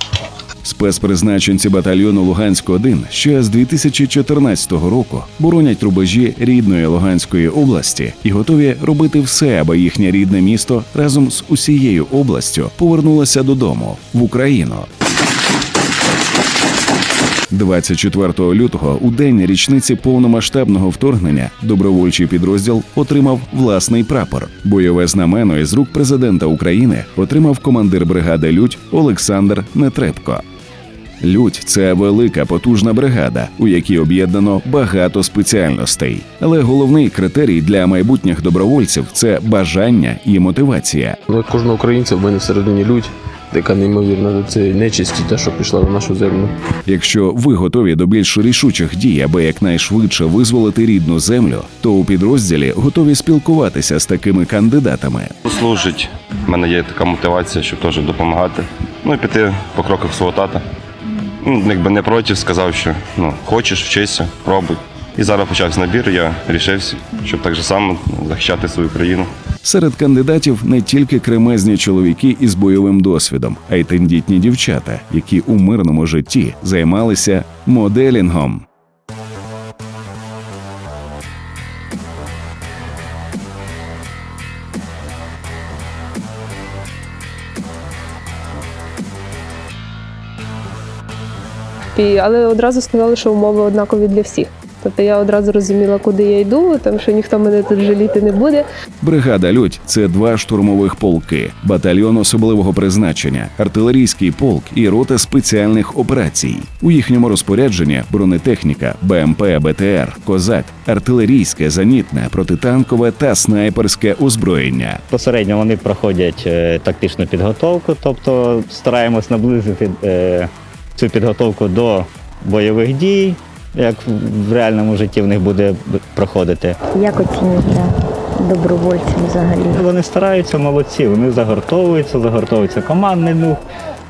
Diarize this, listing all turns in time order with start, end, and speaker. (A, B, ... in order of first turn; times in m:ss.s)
0:00.6-0:14.9 A
0:17.5-0:30.4 A
0:31.2-0:41.2 A
0:41.3-0:46.5 B
0:46.9-0:55.3 A
0:55.4-1:00.6 C
1:01.4-1:09.3 C
1:09.6-1:18.6 A
1:32.0-1:38.6 D
1:39.0-1:55.0 A
1:55.1-2:06.8 E
2:06.9-2:09.8 F
2:09.7-2:13.6 E